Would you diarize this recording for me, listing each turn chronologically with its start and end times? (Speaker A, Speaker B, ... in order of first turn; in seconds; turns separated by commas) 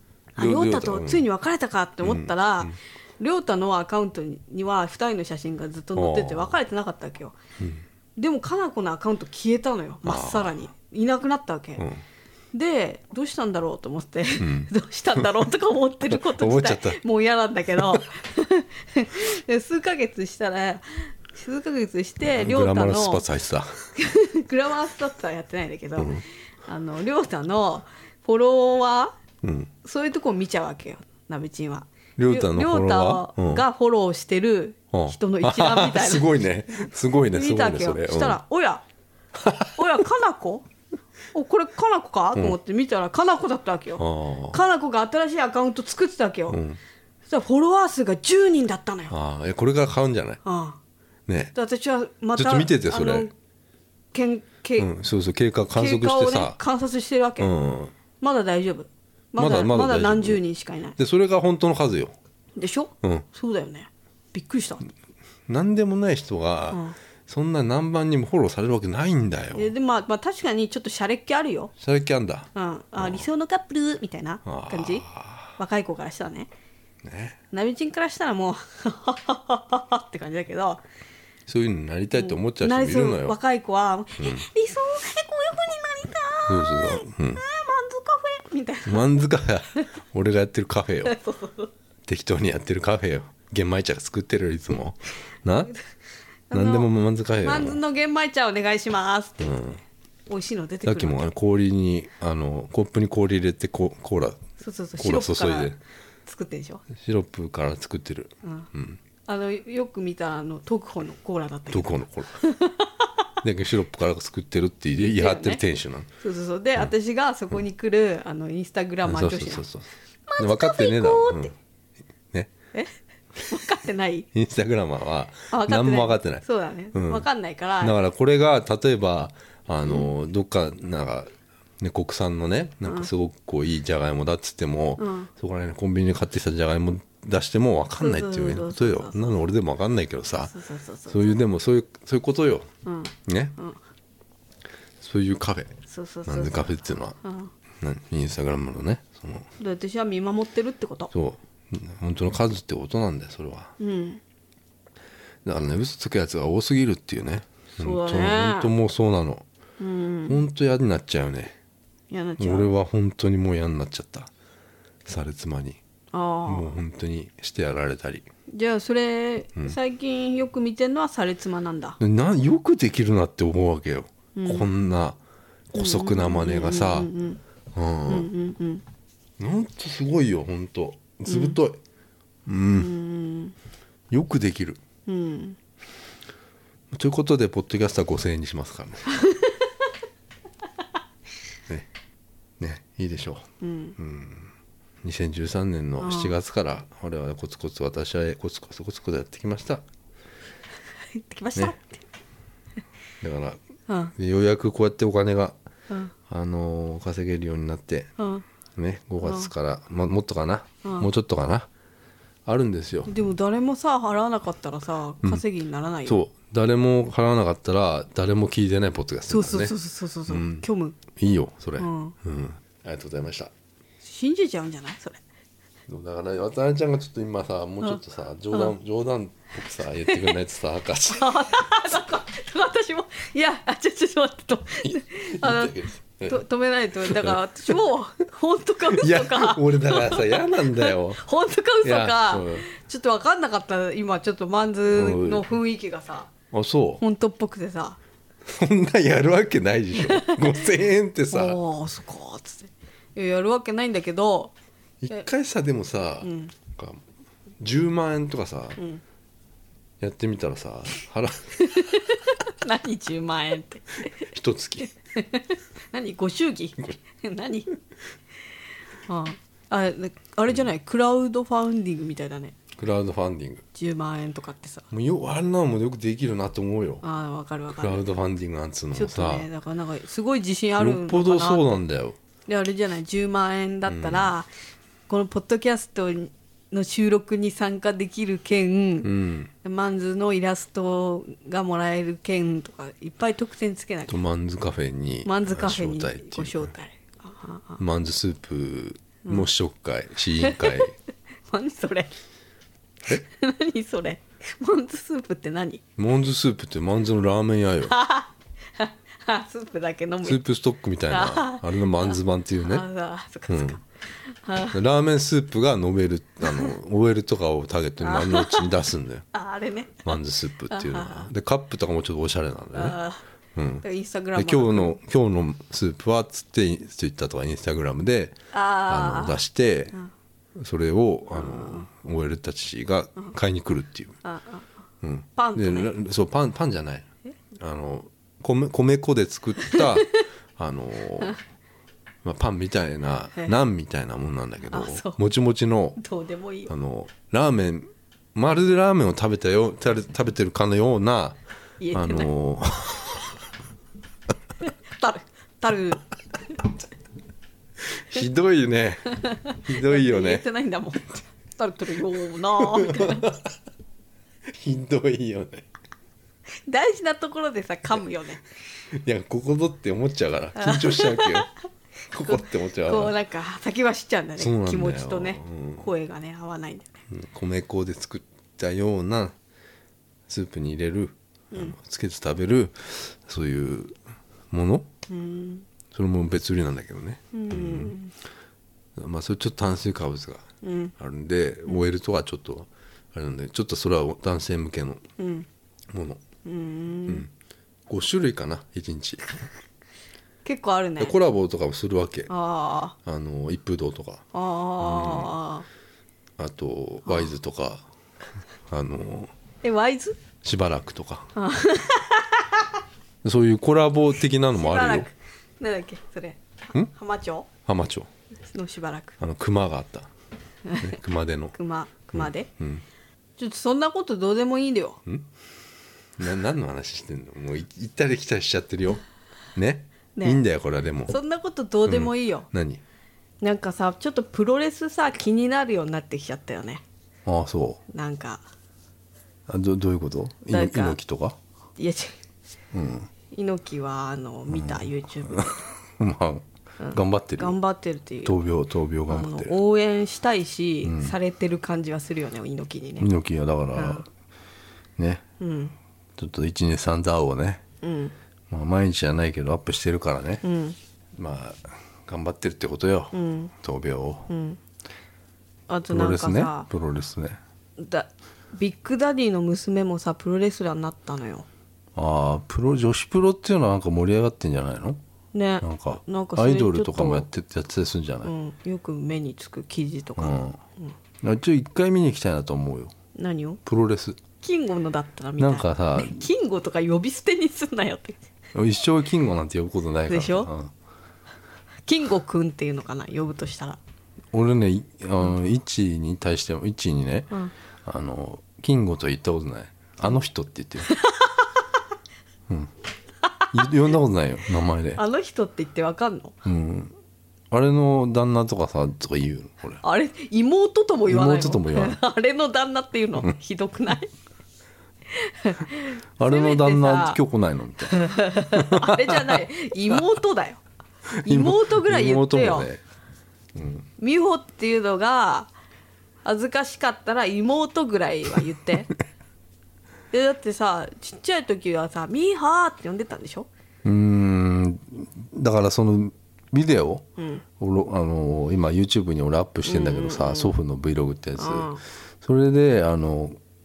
Speaker A: 0.4-7.4, Speaker B: 0.4-1.3, Speaker B: 2.0-2.7, Speaker B: 6.0-6.5, Speaker A: 8.2-11.9, Speaker B: 10.1-10.6, Speaker B: 11.8-12.0, Speaker A: 12.5-23.2, Speaker B: 14.4-15.3, Speaker B: 16.1-17.0, Speaker B: 17.8-18.0, Speaker B: 22.3-23.7, Speaker A: 24.0-29.1, Speaker B: 26.0-26.2, Speaker B: 29.4-29.7, Speaker A: 29.8-36.3, Speaker B: 32.2-33.6, Speaker B: 34.9-38.4, Speaker A: 37.3-38.8, Speaker B: 39.4-39.8, Speaker A: 39.8-40.7, Speaker A: 41.3-46.6, Speaker B: 44.0-44.6, Speaker B: 46.5-46.8, Speaker A: 47.3-49.1, Speaker B: 49.1-50.4, Speaker A: 50.5-50.8, Speaker B: 51.3-51.5, Speaker A: 51.5-53.3, Speaker B: 52.4-53.3, Speaker A: 54.1-54.9, Speaker B: 54.8-56.6, Speaker A: 55.8-57.5, Speaker B: 57.4-57.9, Speaker A: 58.2-61.0, Speaker B: 59.4-60.4, Speaker B: 61.0-62.1, Speaker A: 62.6-64.9, Speaker B: 65.5-69.7, Speaker A: 69.5-71.7, Speaker B: 71.8-73.3, Speaker A: 72.5-75.1, Speaker B: 74.5-75.5, Speaker A: 75.6-76.5, Speaker B: 77.0-77.4, Speaker A: 77.5-80.8, Speaker B: 81.5-83.4, Speaker A: 82.2-89.1, Speaker B: 84.2-84.5, Speaker B: 86.5-87.4, Speaker B: 88.9-91.2, Speaker A: 91.0-91.7, Speaker B: 92.1-95.7, Speaker A: 96.5-96.9, Speaker B: 96.5-97.8, Speaker A: 97.4-99.6, Speaker B: 99.4-99.8, Speaker A: 100.3-101.3, Speaker B: 100.9-104.4, Speaker A: 104.6-105.8, Speaker B: 105.0-105.8, Speaker A: 106.3-106.8, Speaker B: 107.0-109.0, Speaker A: 108.4-108.7, Speaker A: 109.3-113.1, Speaker B: 111.7-112.3, Speaker B: 113.4-116.1, Speaker A: 115.0-115.6, Speaker A: 116.2-119.7, Speaker B: 119.0-119.9, Speaker A: 120.3-121.5, Speaker B: 120.4-121.5, Speaker A: 122.7-124.3, Speaker B: 124.3-127.3, Speaker A: 125.5-128.0, Speaker B: 127.8-140.5, Speaker A: 135.0-135.3, Speaker A: 138.0-139.3, Speaker A: 140.5-141.3, Speaker B: 141.1-142.7, Speaker A: 142.8-143.8, Speaker B: 143.3-143.6, Speaker B: 145.0-145.7, Speaker A: 145.9-147.5, Speaker B: 146.3-147.2, Speaker B: 147.8-149.5, Speaker A: 149.6-151.1, Speaker B: 151.1-153.7, Speaker A: 153.8-154.2, Speaker B: 155.4-159.4, Speaker A: 157.8-158.7, Speaker A: 159.8-160.4, Speaker B: 160.3-161.6, Speaker A: 162.1-162.7, Speaker B: 162.4-164.3, Speaker B: 165.1-165.8, Speaker A: 166.1-166.7, Speaker B: 166.5-168.3, Speaker A: 168.5-172.0, Speaker B: 172.0-175.2, Speaker A: 174.3-174.7, Speaker B: 175.7-177.1, Speaker A: 175.8-177.4, Speaker B: 177.8-178.3, Speaker A: 178.1-178.8, Speaker B: 179.4-181.8, Speaker A: 181.3-181.6, Speaker B: 182.5-182.9, Speaker A: 182.8-183.6, Speaker B: 184.1-184.8, Speaker A: 185.1-185.6, Speaker B: 186.9-189.1, Speaker A: 189.1-189.5, Speaker B: 192.6-193.5, Speaker A: 193.6-194.0, Speaker B: 194.0-194.5, Speaker B: 195.0-199.8, Speaker A: 196.0-196.3, Speaker A: 201.1-202.0, Speaker B: 203.2-203.6, Speaker A: 203.9-204.1, Speaker B: 204.2-205.6, Speaker B: 206.3-208.1, Speaker A: 208.2-208.4, Speaker B: 208.8-211.7, Speaker A: 209.2-209.5, Speaker B: 212.5-213.1, Speaker A: 213.1-216.2, Speaker B: 216.1-219.7, Speaker A: 219.3-221.0, Speaker B: 220.3-223.5, Speaker A: 221.8-222.2, Speaker A: 224.0-225.2, Speaker B: 225.9-231.9, Speaker A: 231.1-246.3, Speaker B: 234.8-236.4, Speaker B: 237.1-237.4, Speaker B: 238.9-241.2, Speaker B: 241.8-242.7, Speaker B: 244.9-245.4, Speaker B: 246.5-247.0, Speaker A: 247.0-248.0, Speaker B: 248.5-251.6, Speaker A: 250.0-250.5, Speaker A: 251.3-254.5, Speaker B: 255.0-257.0, Speaker A: 256.2-256.5, Speaker B: 257.6-258.8, Speaker A: 258.8-259.0, Speaker B: 260.0-262.0, Speaker A: 261.6-264.3, Speaker B: 264.2-264.9, Speaker A: 265.1-267.8, Speaker A: 269.1-272.6, Speaker B: 272.8-273.6, Speaker A: 273.7-274.9, Speaker B: 274.9-277.0, Speaker A: 277.0-278.1, Speaker B: 277.7-279.5, Speaker A: 278.9-281.8, Speaker B: 280.8-282.2, Speaker A: 282.5-284.5, Speaker B: 283.9-284.3, Speaker A: 285.1-294.2, Speaker B: 289.0-289.5, Speaker B: 294.1-296.7, Speaker A: 295.2-297.8, Speaker B: 297.8-300.9, Speaker A: 300.4-300.9, Speaker A: 301.5-302.1, Speaker A: 303.1-305.8, Speaker B: 306.0-307.9, Speaker A: 307.9-310.4, Speaker B: 310.2-312.9, Speaker A: 311.1-314.8, Speaker B: 313.5-313.8, Speaker B: 314.7-319.3, Speaker A: 316.5-316.7, Speaker A: 318.0-318.8, Speaker A: 319.3-320.2, Speaker B: 320.1-323.0, Speaker A: 320.7-321.3, Speaker A: 322.7-323.2, Speaker B: 323.6-329.9, Speaker A: 323.8-325.0, Speaker A: 328.5-329.4, Speaker B: 330.6-334.2, Speaker A: 331.3-331.9, Speaker A: 334.2-334.7, Speaker B: 335.0-341.4, Speaker A: 335.4-335.9, Speaker A: 339.6-340.2, Speaker B: 342.2-346.0, Speaker A: 344.7-345.2, Speaker A: 346.0-346.7, Speaker B: 346.7-351.4, Speaker A: 351.8-352.3, Speaker B: 351.9-353.3, Speaker A: 354.6-356.7, Speaker B: 357.9-360.4, Speaker A: 359.1-363.3, Speaker B: 362.6-363.5, Speaker B: 364.5-365.7, Speaker A: 366.7-368.4, Speaker B: 368.9-371.5, Speaker A: 370.6-371.5, Speaker B: 372.1-373.1, Speaker A: 372.2-377.0, Speaker B: 374.4-375.9, Speaker B: 377.1-379.4, Speaker B: 380.3-383.9, Speaker B: 384.5-384.9, Speaker A: 385.1-385.6, Speaker B: 385.9-387.9, Speaker A: 387.3-388.1, Speaker B: 389.0-390.5, Speaker A: 390.6-390.9, Speaker B: 391.0-395.0, Speaker A: 395.2-395.5, Speaker B: 395.9-396.2, Speaker A: 396.4-397.3, Speaker B: 397.9-399.2, Speaker A: 400.4-401.1, Speaker B: 401.0-402.3, Speaker A: 402.3-402.9, Speaker B: 403.1-404.2, Speaker A: 404.3-405.7, Speaker B: 404.8-405.3, Speaker B: 406.4-407.9, Speaker B: 408.7-409.3, Speaker A: 409.6-410.2, Speaker B: 410.4-411.3, Speaker A: 411.4-412.7, Speaker B: 413.2-415.1, Speaker A: 414.5-417.5, Speaker B: 417.7-418.1, Speaker A: 418.5-419.2, Speaker B: 419.2-420.1, Speaker A: 420.7-421.0, Speaker B: 420.8-421.6, Speaker A: 421.6-422.5, Speaker B: 422.1-422.8, Speaker A: 423.4-425.0, Speaker B: 426.2-429.0, Speaker B: 429.6-431.2, Speaker A: 430.2-430.4, Speaker A: 431.1-432.5, Speaker B: 431.9-432.8, Speaker A: 433.4-436.8, Speaker B: 437.3-437.8, Speaker A: 437.9-438.4, Speaker B: 439.5-441.4, Speaker A: 440.5-441.0, Speaker A: 441.8-442.1, Speaker B: 442.7-443.1, Speaker A: 443.3-445.6, Speaker B: 444.5-447.6, Speaker A: 446.8-448.4, Speaker B: 448.2-449.6, Speaker A: 449.1-453.1, Speaker B: 450.8-451.1, Speaker B: 453.0-454.1, Speaker A: 453.8-454.1, Speaker B: 455.0-455.2, Speaker A: 455.4-455.7, Speaker B: 456.2-457.6, Speaker A: 457.8-458.1, Speaker B: 458.5-460.4, Speaker A: 460.4-460.8, Speaker B: 461.2-464.3, Speaker A: 463.1-463.5, Speaker A: 464.3-464.6, Speaker A: 465.7-466.7, Speaker B: 465.9-467.4, Speaker A: 467.8-471.5, Speaker B: 471.9-475.0, Speaker A: 475.3-477.3, Speaker B: 475.6-478.3, Speaker A: 478.2-480.9, Speaker B: 480.2-480.6, Speaker B: 481.2-482.9, Speaker A: 483.1-483.6, Speaker B: 483.6-484.2, Speaker A: 484.4-488.2, Speaker B: 485.4-486.3, Speaker B: 488.5-490.7, Speaker A: 490.1-490.5, Speaker A: 491.9-493.8, Speaker B: 494.3-497.3, Speaker B: 497.9-500.9, Speaker A: 500.9-501.5, Speaker A: 503.2-503.7, Speaker B: 503.5-505.0, Speaker A: 505.0-506.4, Speaker B: 506.4-506.9, Speaker B: 507.5-509.8, Speaker A: 509.8-514.1, Speaker B: 511.1-512.0, Speaker A: 515.1-517.2, Speaker B: 516.2-520.0, Speaker A: 517.9-520.6, Speaker A: 521.2-522.7, Speaker B: 521.2-522.8, Speaker B: 523.5-523.9, Speaker A: 524.0-525.5, Speaker A: 526.2-528.9, Speaker A: 530.1-533.5, Speaker B: 533.9-537.0, Speaker A: 537.2-537.4, Speaker B: 537.6-541.7, Speaker A: 539.6-540.5, Speaker A: 541.4-541.8, Speaker B: 542.2-543.4